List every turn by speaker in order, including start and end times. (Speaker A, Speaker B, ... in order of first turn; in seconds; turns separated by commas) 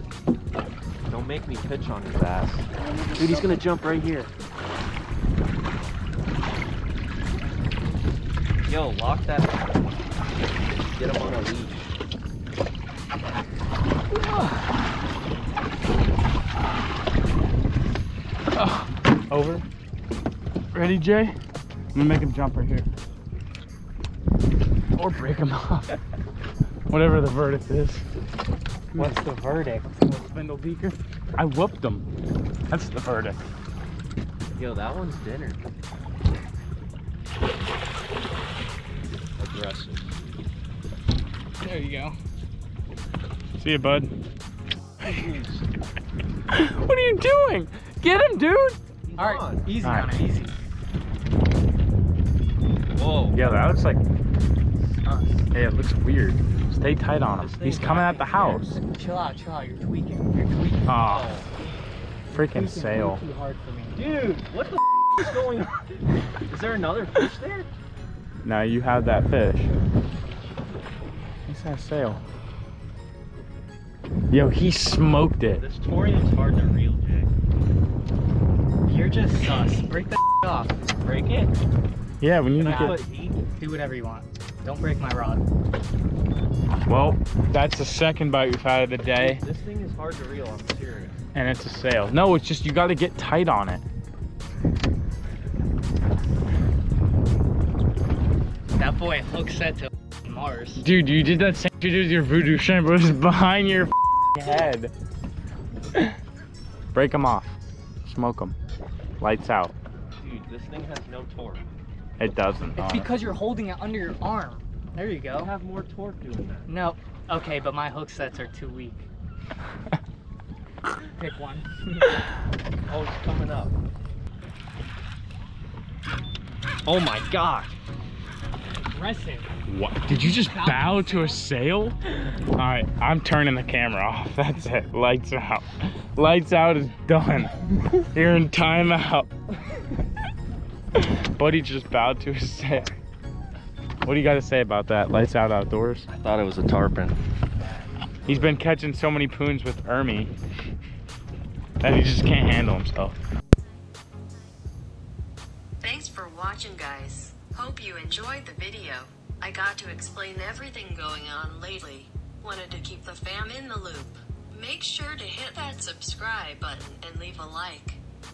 Speaker A: 1.1-4.3, Speaker A: 8.6-9.7, Speaker A: 10.8-11.9, Speaker B: 18.5-19.6, Speaker B: 20.7-21.4, Speaker B: 21.9-22.9, Speaker B: 24.9-26.0, Speaker B: 26.9-28.1, Speaker B: 28.9-29.2, Speaker C: 28.9-29.9, Speaker B: 30.0-32.0, Speaker B: 32.7-33.5, Speaker A: 34.5-35.6, Speaker A: 39.4-40.1, Speaker C: 41.6-42.2, Speaker B: 43.5-44.1, Speaker A: 45.0-45.6, Speaker B: 46.5-48.8, Speaker A: 49.0-49.7, Speaker C: 49.2-50.5, Speaker B: 49.8-50.2, Speaker A: 52.9-53.5, Speaker B: 53.3-54.0, Speaker C: 55.0-55.5, Speaker B: 55.5-58.8, Speaker A: 57.3-58.7, Speaker C: 58.9-60.9, Speaker B: 60.8-61.4, Speaker A: 60.9-61.6, Speaker C: 62.3-64.0, Speaker B: 62.3-63.2, Speaker A: 64.0-65.9, Speaker A: 66.5-67.7, Speaker B: 68.4-69.7, Speaker B: 71.5-72.2, Speaker B: 74.3-75.7, Speaker A: 75.6-77.3, Speaker C: 78.8-80.7, Speaker A: 81.0-81.5, Speaker B: 82.2-83.0, Speaker A: 82.5-83.5, Speaker C: 82.6-83.0, Speaker C: 83.6-85.4, Speaker B: 86.8-89.4, Speaker A: 89.0-91.2, Speaker B: 91.3-93.8, Speaker C: 98.7-100.8, Speaker B: 100.8-104.9, Speaker B: 106.9-108.5, Speaker B: 109.2-109.7, Speaker A: 110.2-111.6, Speaker B: 112.2-113.1, Speaker C: 112.8-115.5, Speaker A: 115.3-116.7, Speaker C: 116.7-119.1, Speaker C: 121.0-122.1, Speaker A: 122.9-123.7, Speaker A: 126.8-127.8, Speaker C: 128.9-129.5, Speaker B: 129.7-132.0, Speaker C: 130.1-131.4, Speaker B: 132.5-137.5, Speaker B: 138.1-139.3, Speaker B: 140.9-142.9, Speaker B: 144.0-146.1, Speaker A: 146.1-147.2, Speaker B: 148.2-150.3, Speaker A: 148.3-148.6, Speaker B: 151.8-153.2, Speaker D: 155.8-168.0